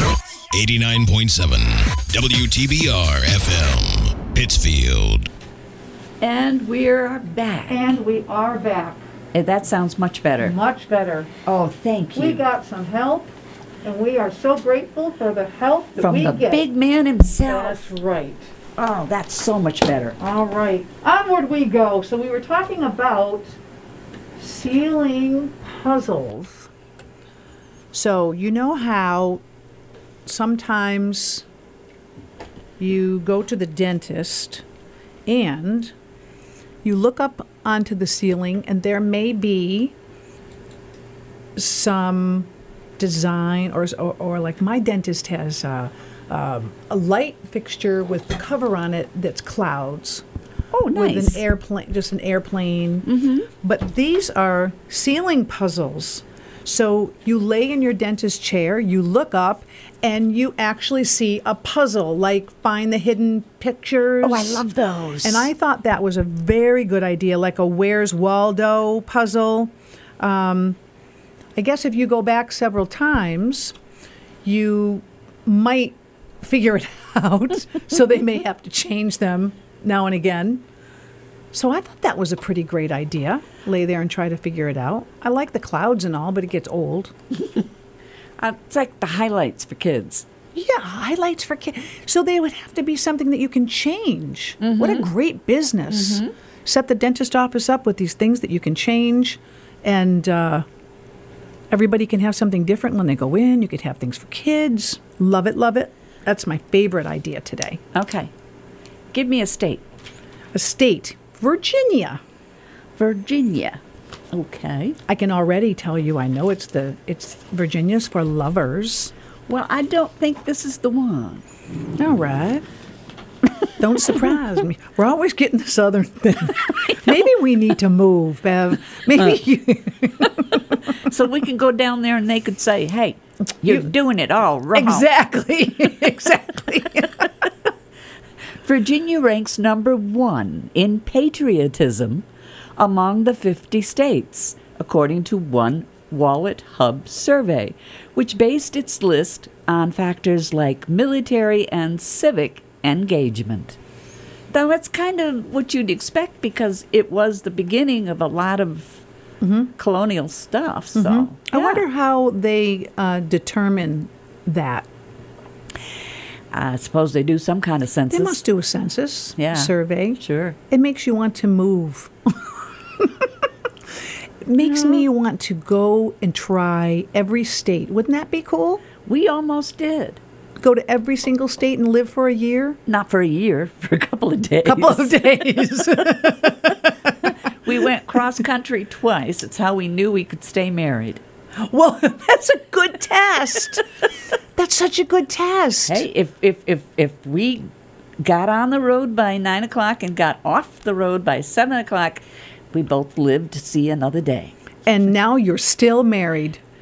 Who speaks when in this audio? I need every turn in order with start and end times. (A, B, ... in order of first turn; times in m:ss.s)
0:00.5-0:05.3 A
0:06.2-0:08.0 B
0:07.7-0:09.0 C
0:09.3-0:10.5 B
0:10.4-0:11.3 C
0:11.5-0:12.4 B
0:12.2-0:13.3 C
0:13.8-0:16.6 C
0:16.0-0:17.9 B
0:17.4-0:18.5 C
0:18.8-0:20.2 B
0:20.2-0:23.5 C
0:24.4-0:26.7 C
0:27.9-0:29.4 C
0:30.2-0:31.4 C
0:32.8-0:34.6 C
0:35.3-0:35.9 C
0:36.8-0:40.0 C
0:41.6-0:50.2 C
0:50.7-0:51.4 B
0:50.9-0:53.1 C
0:53.0-0:53.5 B
0:53.6-1:04.6 C
1:04.2-1:05.5 B
1:05.2-1:10.8 C
1:11.6-1:13.8 C
1:14.4-1:20.6 C
1:21.5-1:27.1 C
1:28.4-1:30.3 B
1:30.5-1:40.6 C
1:34.6-1:35.1 B
1:35.9-1:36.3 B
1:41.7-1:47.8 C
1:47.9-1:48.3 B
1:49.1-1:49.8 B
1:50.5-1:52.2 C
1:53.0-1:53.8 B
1:54.3-1:55.0 B
1:55.1-1:59.1 C
1:59.5-2:01.4 B
2:02.0-2:02.6 C
2:03.8-2:10.8 C
2:06.7-2:07.2 B
2:10.9-2:15.1 B
2:14.7-2:17.3 C
2:18.6-2:22.3 B
2:22.8-2:33.8 B
2:34.5-2:39.0 B
2:39.4-2:39.7 C
2:39.8-2:41.8 B
2:41.0-2:44.9 C
2:46.5-2:48.4 B
2:48.1-2:52.4 C
2:49.4-2:50.6 B
2:53.0-2:53.3 C
2:54.4-2:58.8 C
2:54.6-2:55.1 B
2:59.0-3:00.2 B
3:00.6-3:02.8 C
3:02.9-3:06.1 B
3:04.6-3:06.9 C
3:07.2-3:11.2 B
3:11.6-3:13.8 C
3:14.6-3:16.0 C
3:15.9-3:17.7 B
3:18.2-3:24.6 B
3:24.9-3:26.6 C